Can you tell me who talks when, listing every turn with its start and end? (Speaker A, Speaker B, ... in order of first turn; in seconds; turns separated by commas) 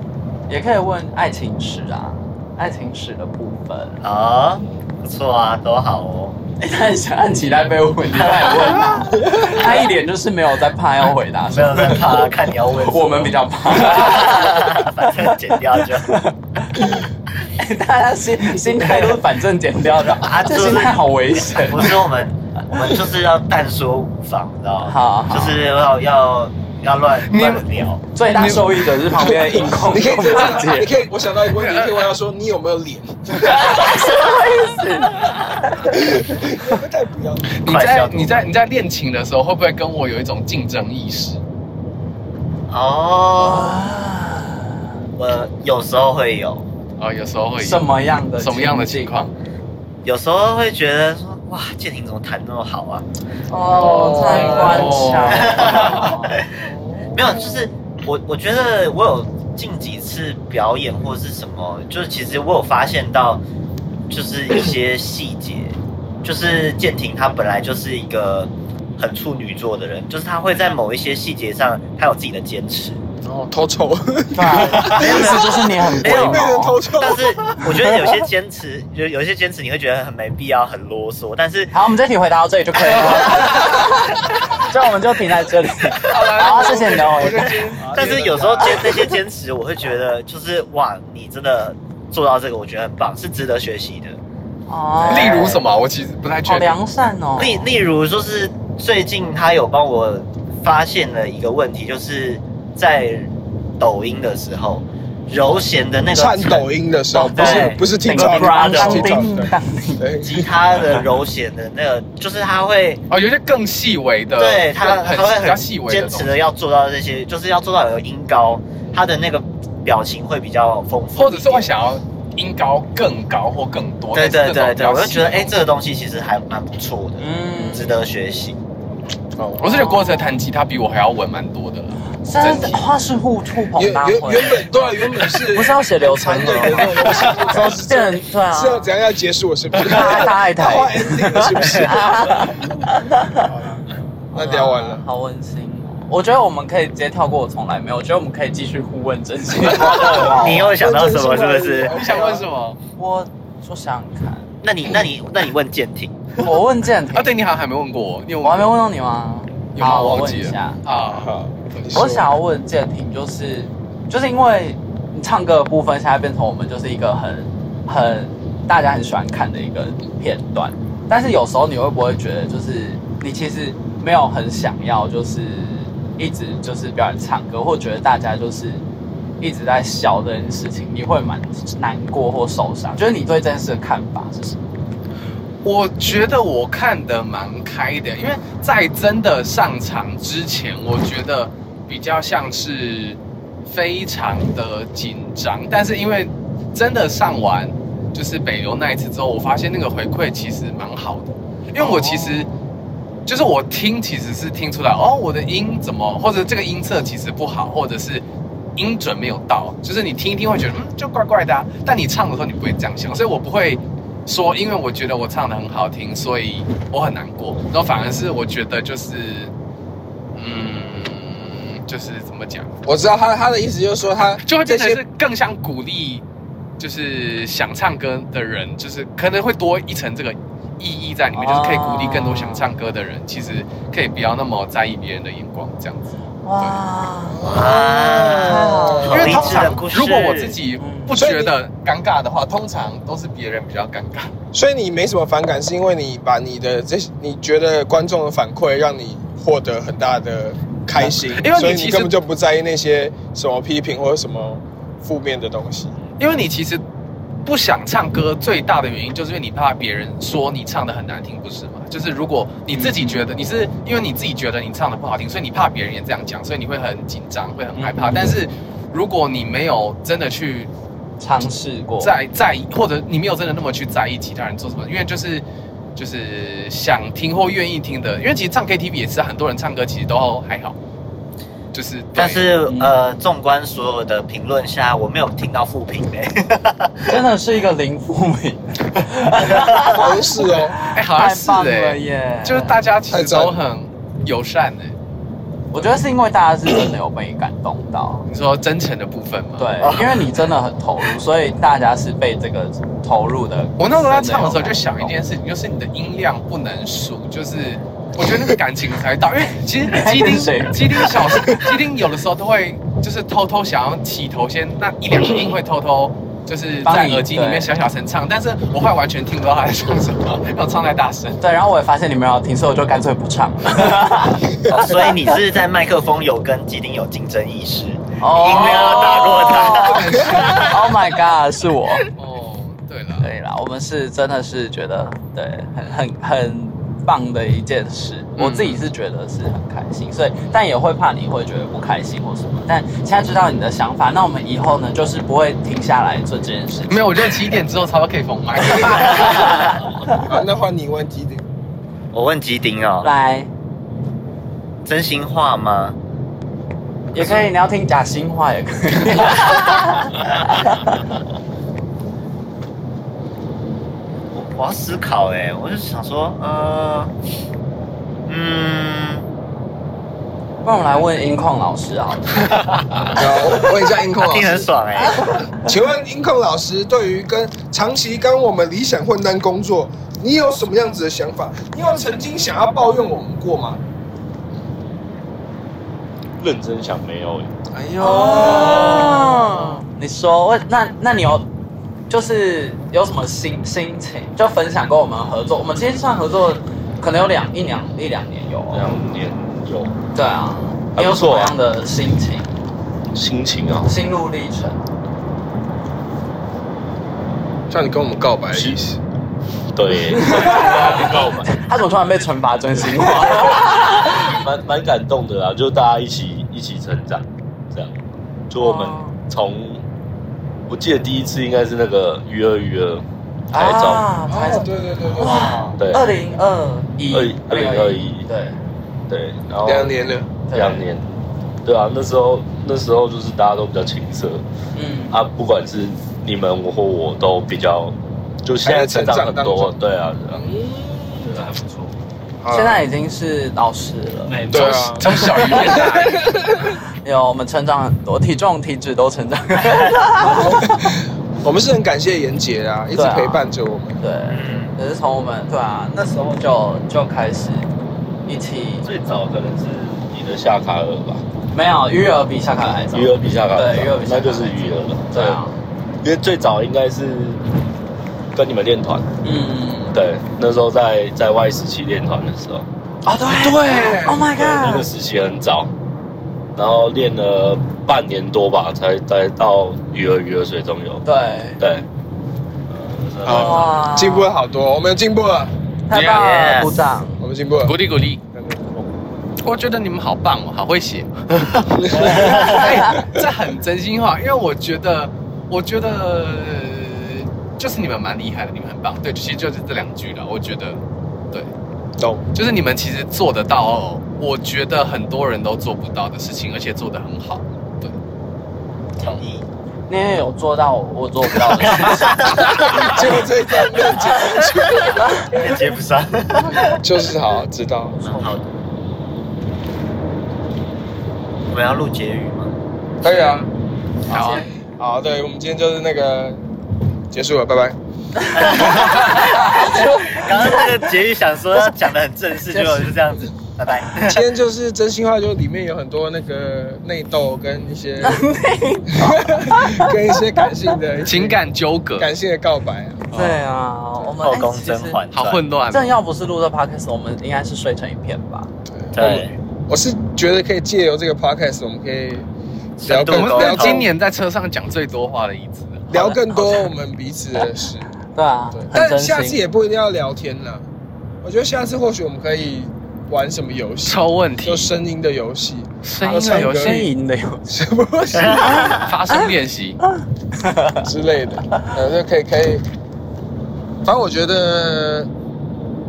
Speaker A: 0.5-4.0, Speaker B: 4.0-6.4, Speaker A: 6.6-17.0, Speaker B: 8.4-8.8, Speaker C: 9.2-9.6, Speaker B: 11.5-16.2, Speaker A: 17.6-22.0, Speaker B: 18.9-19.2, Speaker B: 20.1-28.0, Speaker A: 24.9-25.7, Speaker D: 27.2-27.7, Speaker A: 28.1-30.9, Speaker D: 28.3-28.8, Speaker C: 29.3-33.9, Speaker D: 31.5-32.0, Speaker A: 33.4-36.1, Speaker C: 35.9-37.5, Speaker D: 37.6-41.4, Speaker B: 37.6-38.5, Speaker B: 42.7-43.9, Speaker A: 43.4-44.9, Speaker B: 45.2-46.6, Speaker D: 47.0-47.8, Speaker A: 47.6-49.3, Speaker D: 48.4-49.3, Speaker B: 50.0-53.1, Speaker A: 53.5-57.1, Speaker C: 53.7-54.9, Speaker D: 54.2-56.2, Speaker B: 55.2-56.5, Speaker B: 57.1-63.4, Speaker B: 64.1-73.0, Speaker C: 73.2-77.8, Speaker A: 74.3-76.8, Speaker B: 74.6-81.7, Speaker A: 81.7-87.6, Speaker B: 83.0-83.7, Speaker D: 86.0-88.9, Speaker C: 87.8-88.9, Speaker B: 87.9-94.2, Speaker A: 94.7-95.6, Speaker B: 95.0-95.6, Speaker D: 95.0-96.8, Speaker A: 96.5-97.7, Speaker B: 97.4-106.7, Speaker C: 106.1-110.5, Speaker A: 107.1-110.1, Speaker B: 107.3-109.3, Speaker B: 110.2-113.0, Speaker D: 113.1-116.3, Speaker B: 114.4-121.7, Speaker D: 121.1-125.6, Speaker B: 124.1-128.6, Speaker A: 127.2-128.0, Speaker C: 129.4-129.8, Speaker D: 129.6-132.8, Speaker A: 129.6-130.3, Speaker A: 132.2-134.7, Speaker C: 133.8-145.0, Speaker A: 135.5-138.9, Speaker A: 139.8-143.4, Speaker A: 144.3-150.8, Speaker C: 150.0-152.5, Speaker B: 150.2-152.0, Speaker D: 151.9-152.8, Speaker A: 153.0-154.5, Speaker B: 154.6-156.2, Speaker A: 156.4-157.4, Speaker D: 157.1-158.8, Speaker A: 158.4-160.8, Speaker D: 159.8-161.3, Speaker C: 161.1-162.3, Speaker A: 161.9-178.8, Speaker A: 179.4-184.6, Speaker D: 185.6-202.5, Speaker A: 201.8-202.6, Speaker D: 203.3-208.2, Speaker D: 208.8-219.5, Speaker D: 220.4-222.7, Speaker C: 222.9-225.0, Speaker D: 224.5-226.2, Speaker D: 226.8-236.8, Speaker A: 231.3-232.7, Speaker A: 236.4-237.5, Speaker C: 237.3-239.4, Speaker B: 237.4-240.6, Speaker A: 238.3-239.7, Speaker D: 239.1-244.3, Speaker A: 240.8-241.2, Speaker C: 241.2-241.5, Speaker C: 244.5-255.9, Speaker D: 251.0-252.2, Speaker D: 256.2-256.8, Speaker D: 257.4-270.7, Speaker A: 262.7-263.2, Speaker A: 267.8-268.4, Speaker A: 271.2-272.1, Speaker D: 272.0-275.4, Speaker D: 276.0-280.8, Speaker D: 281.7-282.6, Speaker B: 282.2-287.2, Speaker A: 282.7-282.9, Speaker A: 287.1-292.7, Speaker C: 289.8-290.8, Speaker D: 290.9-294.9, Speaker C: 293.1-293.6, Speaker A: 295.7-298.2, Speaker D: 298.3-300.1, Speaker A: 299.6-305.1, Speaker B: 299.8-300.1, Speaker D: 303.8-321.4, Speaker A: 309.9-311.7, Speaker A: 316.9-317.7, Speaker A: 321.4-325.1, Speaker B: 324.7-330.8, Speaker A: 328.2-332.1, Speaker D: 328.6-330.8, Speaker D: 332.1-333.3, Speaker A: 333.2-347.1, Speaker D: 338.4-338.8, Speaker D: 346.9-349.7, Speaker B: 349.2-349.7, Speaker C: 350.2-351.4, Speaker B: 352.1-353.1, Speaker A: 353.0-353.5, Speaker B: 354.9-356.0, Speaker A: 357.1-361.0, Speaker C: 357.2-357.4, Speaker B: 364.3-367.1, Speaker B: 368.3-369.2, Speaker A: 370.6-372.7, Speaker C: 373.1-374.7, Speaker B: 374.2-375.5, Speaker C: 375.6-383.8, Speaker E: 386.4-387.5, Speaker C: 387.7-389.6, Speaker A: 388.0-391.5, Speaker A: 392.1-398.9, Speaker E: 398.7-399.9, Speaker A: 400.1-402.5, Speaker E: 401.0-401.6, Speaker E: 403.1-403.9, Speaker A: 403.9-404.8, Speaker C: 407.7-409.0, Speaker E: 408.5-408.8, Speaker E: 409.8-411.6, Speaker A: 410.1-414.3, Speaker E: 413.2-417.9, Speaker E: 418.5-419.8, Speaker A: 418.6-419.1, Speaker E: 420.7-424.1, Speaker A: 423.5-428.6, Speaker C: 424.3-425.5, Speaker B: 425.2-425.8, Speaker E: 425.8-426.1, Speaker E: 427.1-428.3, Speaker E: 429.1-429.9, Speaker C: 429.6-430.3, Speaker A: 430.5-430.9, Speaker E: 430.5-431.1, Speaker E: 431.6-434.4, Speaker A: 434.8-435.1, Speaker E: 435.1-440.4, Speaker C: 438.6-439.8, Speaker C: 440.3-441.4, Speaker E: 441.2-441.9, Speaker C: 442.4-442.8, Speaker A: 442.5-444.5, Speaker E: 444.2-445.2, Speaker C: 444.5-446.8, Speaker D: 445.0-446.2, Speaker A: 447.0-451.0, Speaker C: 450.2-454.0, Speaker A: 453.0-453.5, Speaker A: 454.0-457.7, Speaker B: 454.3-454.8, Speaker A: 458.3-458.9, Speaker E: 458.8-461.2, Speaker A: 461.5-465.6, Speaker E: 462.9-465.5, Speaker E: 466.0-467.4, Speaker E: 468.3-469.1, Speaker A: 469.2-470.0, Speaker E: 469.9-472.7, Speaker A: 473.1-474.9, Speaker C: 473.4-474.2, Speaker D: 473.4-474.0, Speaker E: 473.9-475.7, Speaker E: 476.6-481.1, Speaker A: 481.1-481.6, Speaker E: 481.6-481.9, Speaker E: 482.7-483.8, Speaker C: 483.2-485.5, Speaker A: 483.3-484.3, Speaker A: 485.9-487.2, Speaker D: 485.9-486.2, Speaker B: 486.0-486.8, Speaker C: 487.2-487.8, Speaker D: 487.6-488.2, Speaker C: 488.3-488.9, Speaker D: 489.4-500.8, Speaker C: 491.8-492.4, Speaker A: 491.9-492.9, Speaker C: 502.0-502.2, Speaker D: 502.3-508.0, Speaker B: 509.0-509.4, Speaker A: 509.9-513.0, Speaker B: 511.8-512.9, Speaker C: 512.4-515.4, Speaker B: 515.2-516.8, Speaker C: 516.6-518.0, Speaker A: 518.0-518.4, Speaker B: 518.0-518.5, Speaker B: 521.5-522.5, Speaker C: 523.0-523.5, Speaker D: 524.1-524.5, Speaker A: 524.1-524.5, Speaker C: 524.8-526.4, Speaker C: 527.1-527.8, Speaker A: 528.2-530.8, Speaker B: 528.3-534.2, Speaker A: 532.5-533.0, Speaker C: 534.0-538.2, Speaker A: 538.0-540.0, Speaker C: 539.0-541.4, Speaker D: 541.0-542.1, Speaker C: 542.0-543.1, Speaker A: 543.1-545.0, Speaker D: 543.1-543.4, Speaker B: 544.2-545.4, Speaker D: 545.1-546.0, Speaker A: 545.7-549.3, Speaker C: 548.7-552.3, Speaker B: 549.0-549.3, Speaker B: 552.8-553.9, Speaker C: 552.9-553.9, Speaker D: 553.1-555.9, Speaker C: 555.9-557.9, Speaker A: 555.9-556.6, Speaker A: 558.1-559.4, Speaker C: 558.5-560.6, Speaker C: 561.2-566.8, Speaker D: 563.9-564.7, Speaker D: 565.8-566.9, Speaker A: 566.0-567.5, Speaker C: 567.5-568.8, Speaker B: 568.1-568.8, Speaker A: 568.3-569.3, Speaker D: 568.8-569.8, Speaker A: 569.9-570.9, Speaker C: 570.8-572.6, Speaker C: 573.8-575.1